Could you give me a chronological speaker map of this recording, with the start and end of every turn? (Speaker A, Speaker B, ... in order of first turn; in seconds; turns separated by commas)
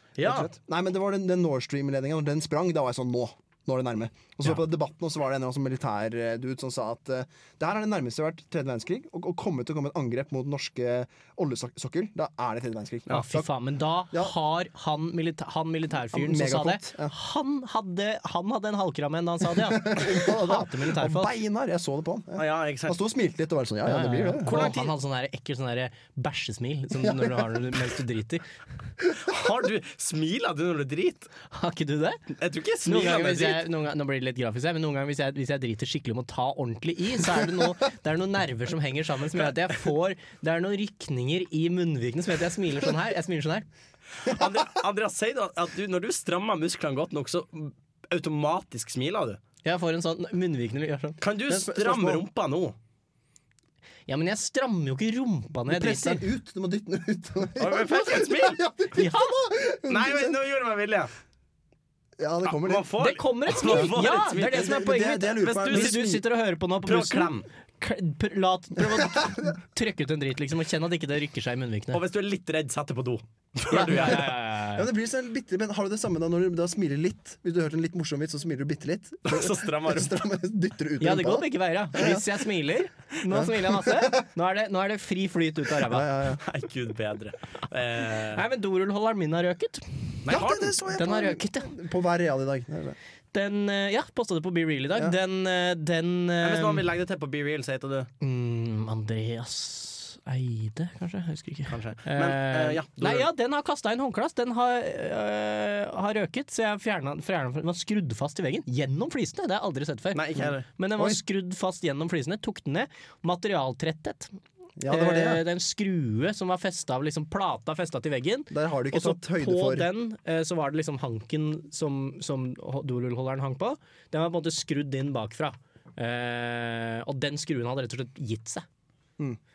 Speaker A: 0.2-0.5, Speaker B: 0.2-13.5, Speaker C: 13.1-21.3, Speaker B: 14.1-14.3, Speaker B: 16.1-17.1, Speaker B: 19.4-24.6, Speaker A: 22.4-23.0, Speaker C: 23.8-28.4, Speaker A: 24.4-24.9, Speaker B: 27.0-27.4, Speaker A: 29.2-31.3, Speaker C: 31.5-32.2, Speaker A: 32.4-33.7, Speaker C: 32.8-43.6, Speaker A: 44.2-49.4, Speaker C: 49.6-51.2, Speaker A: 51.2-52.7, Speaker B: 51.5-52.2, Speaker C: 54.1-56.2, Speaker B: 55.7-60.4, Speaker A: 57.6-58.6, Speaker C: 58.9-59.5, Speaker A: 59.9-61.1, Speaker B: 62.2-62.9, Speaker A: 62.5-64.8, Speaker C: 63.0-72.0, Speaker B: 63.6-66.2, Speaker A: 65.3-66.1, Speaker A: 66.8-67.5, Speaker B: 69.0-69.5, Speaker A: 71.9-74.3, Speaker C: 73.7-74.9, Speaker B: 74.7-82.4, Speaker A: 79.3-80.2, Speaker C: 81.0-86.1, Speaker B: 83.3-84.3, Speaker B: 85.7-86.4, Speaker A: 86.4-88.4, Speaker C: 88.3-90.2, Speaker A: 90.2-90.7, Speaker B: 90.3-93.0, Speaker C: 90.9-91.7, Speaker C: 93.3-96.8, Speaker A: 96.4-98.1, Speaker C: 98.2-114.3, Speaker A: 101.7-103.3, Speaker A: 110.1-110.7, Speaker B: 114.8-115.4, Speaker C: 114.9-128.6, Speaker B: 118.5-119.9